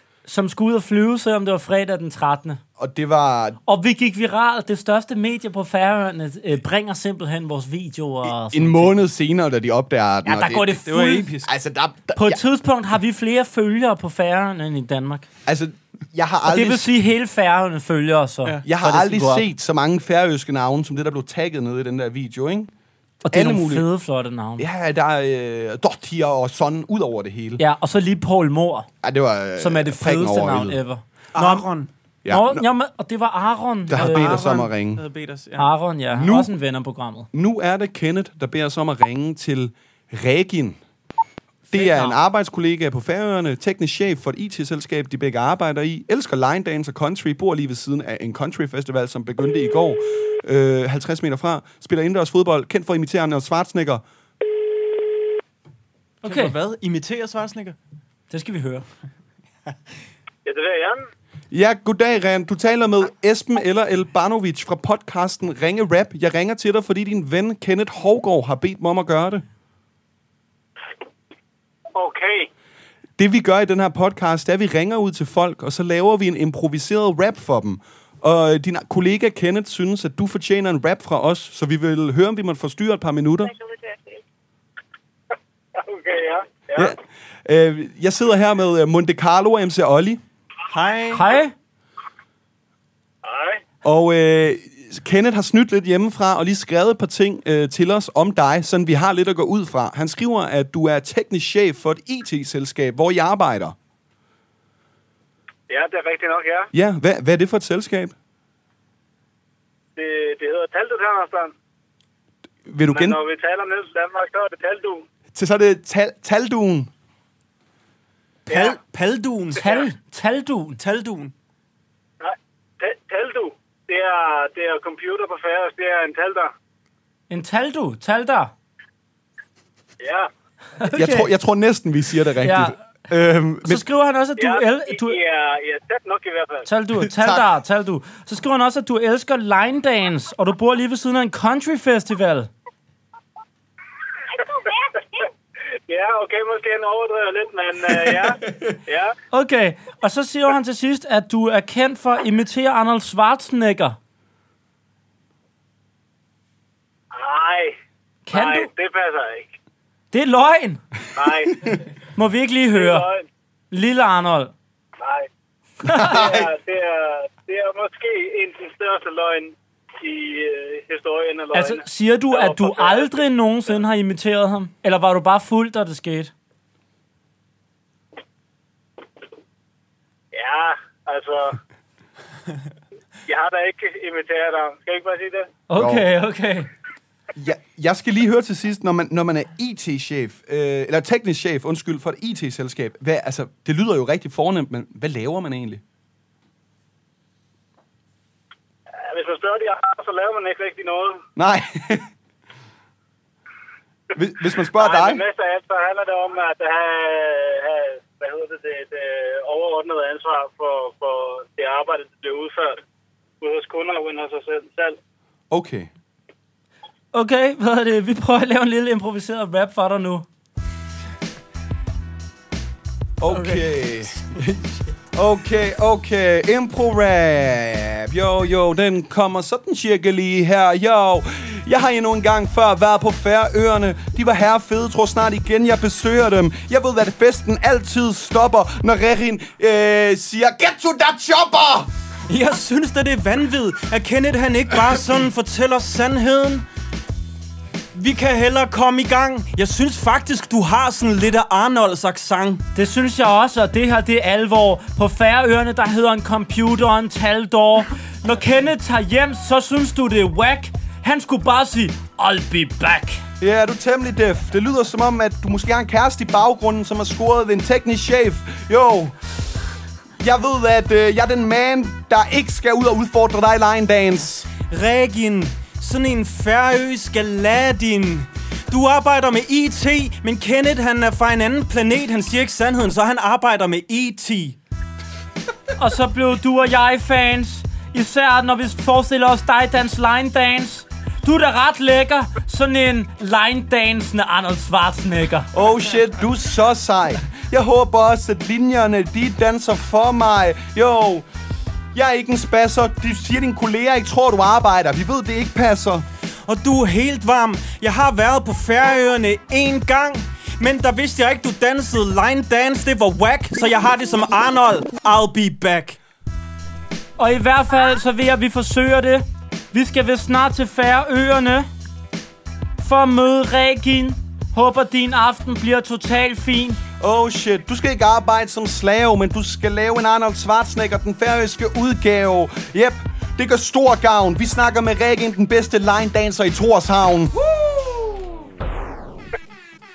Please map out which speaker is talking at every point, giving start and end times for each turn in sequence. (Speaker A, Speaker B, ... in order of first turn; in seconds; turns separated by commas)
Speaker A: 0.3-2.6, Speaker B: 2.8-3.6, Speaker A: 3.7-8.9, Speaker B: 8.2-10.8, Speaker A: 10.2-11.3, Speaker C: 10.9-11.5, Speaker B: 11.4-12.4, Speaker A: 12.2-15.3, Speaker B: 15.5-16.9, Speaker A: 16.5-19.5, Speaker B: 18.6-22.7, Speaker A: 23.2-24.7, Speaker B: 23.3-23.9, Speaker B: 24.6-27.6, Speaker A: 27.6-28.9, Speaker B: 29.0-30.8, Speaker A: 29.6-31.7, Speaker C: 31.4-31.9, Speaker B: 32.2-32.6, Speaker A: 32.3-34.6, Speaker B: 33.9-35.0, Speaker C: 33.9-35.7, Speaker A: 35.6-37.3, Speaker B: 36.1-36.5, Speaker B: 37.3-40.8, Speaker B: 41.7-54.0, Speaker C: 41.8-42.1, Speaker A: 56.2-56.6, Speaker C: 56.2-57.8, Speaker A: 58.3-58.9, Speaker D: 60.5-61.0, Speaker B: 61.5-69.4, Speaker D: 72.0-72.5, Speaker B: 73.2-83.6, Speaker D: 85.8-86.9, Speaker B: 86.8-90.2, Speaker C: 90.7-91.3, Speaker A: 91.1-91.5, Speaker D: 93.2-93.6, Speaker B: 93.8-103.8, Speaker D: 105.7-106.7, Speaker B: 106.7-108.1, Speaker D: 110.0-111.5, Speaker B: 112.7-113.2, Speaker D: 112.8-115.0, Speaker B: 115.3-116.9, Speaker D: 118.5-118.8, Speaker C: 118.5-119.7, Speaker A: 119.5-120.8, Speaker C: 120.8-121.3, Speaker D: 122.2-126.5, Speaker A: 127.3-128.5, Speaker D: 130.0-130.3, Speaker A: 130.8-131.3, Speaker B: 130.9-133.8, Speaker A: 132.4-132.8, Speaker A: 133.6-135.2, Speaker D: 134.4-136.7, Speaker A: 136.7-142.5, Speaker B: 137.0-137.5, Speaker D: 144.3-145.3, Speaker D: 145.9-149.2, Speaker A: 149.3-154.0, Speaker D: 157.1-157.8, Speaker A: 158.3-158.7, Speaker D: 158.3-159.5, Speaker A: 160.1-160.8, Speaker D: 161.2-161.7, Speaker A: 162.2-163.1, Speaker D: 162.8-163.3, Speaker A: 163.7-164.5, Speaker D: 165.0-165.3, Speaker A: 165.8-166.2, Speaker B: 165.8-166.5, Speaker D: 166.0-173.1, Speaker A: 171.5-176.3, Speaker D: 180.3-181.6, Speaker D: 183.3-185.5, Speaker A: 185.7-186.7, Speaker B: 185.8-186.1, Speaker B: 187.4-195.8, Speaker D: 199.0-201.2, Speaker B: 201.4-202.1, Speaker B: 204.2-205.2, Speaker D: 204.7-212.8, Speaker D: 213.4-215.0, Speaker B: 215.5-215.9, Speaker A: 217.1-220.3, Speaker B: 223.2-224.1, Speaker C: 223.3-223.7, Speaker C: 224.3-224.6, Speaker B: 225.1-241.9, Speaker C: 242.3-246.7, Speaker C: 247.9-252.7, Speaker A: 252.8-263.2, Speaker B: 263.4-269.4, Speaker B: 270.2-274.4, Speaker C: 274.5-284.6, Speaker A: 285.8-295.5, Speaker B: 295.5-301.3, Speaker B: 301.9-306.1, Speaker C: 306.5-316.0, Speaker A: 317.2-321.7, Speaker A: 322.8-326.8, Speaker B: 327.0-337.5